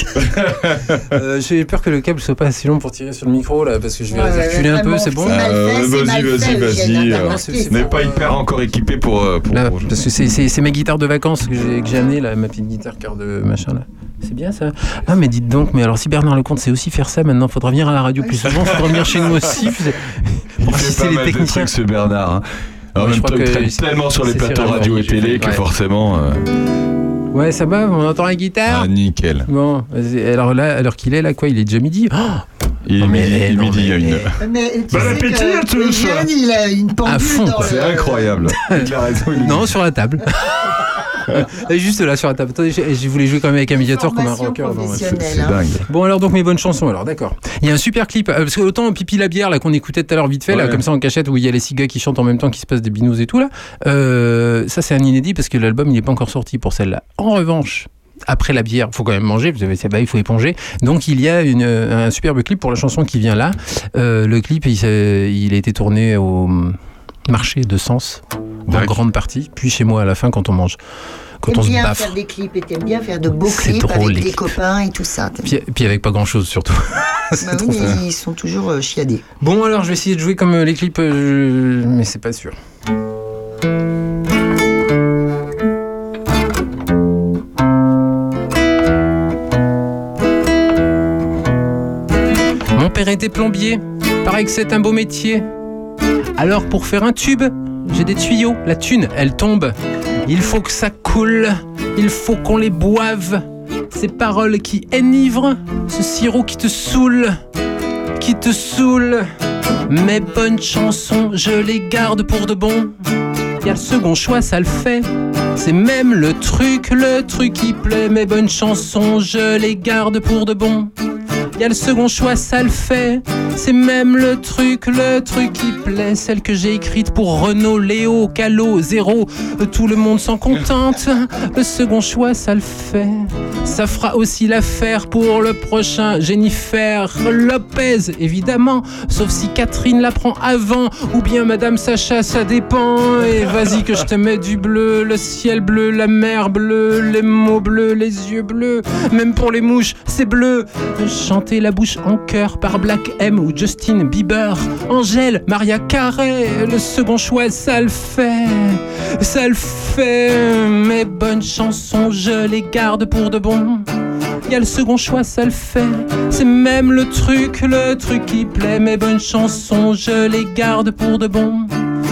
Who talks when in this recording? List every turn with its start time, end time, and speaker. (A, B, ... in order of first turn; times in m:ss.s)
0:00.3-0:01.0 A
0:01.0-0:05.4 B
0:04.1-0:08.1 C
0:05.2-0:09.9 A
0:07.0-0:08.4 B
0:09.5-0:21.7 B
0:18.5-0:19.5 A
0:20.6-0:26.4 A
0:23.0-0:25.6 B
0:27.3-0:28.9 B
0:28.6-0:29.5 A
0:29.4-0:32.4 B
0:32.8-0:34.4 A
0:33.0-0:34.3 B
0:34.4-0:38.3 C
0:34.9-0:36.3 A
0:37.0-0:37.8 B
0:37.6-0:39.7 A
0:38.4-0:45.3 B
0:43.7-0:45.6 C
0:45.1-0:45.8 A
0:45.9-1:10.8 B
0:50.5-0:50.8 A
1:08.7-1:09.0 A
1:11.4-1:12.1 B
1:11.5-1:15.5 C
1:13.4-1:14.5 B
1:15.4-1:18.0 B
1:17.4-1:19.2 C
1:19.4-1:22.6 B
1:32.7-1:35.4 B
1:36.4-1:39.7 B
1:40.2-1:47.4 B
1:48.2-1:49.2 B
1:49.9-1:52.9 B
1:53.6-2:00.9 B
2:01.6-2:43.8 B
2:44.4-2:51.7 B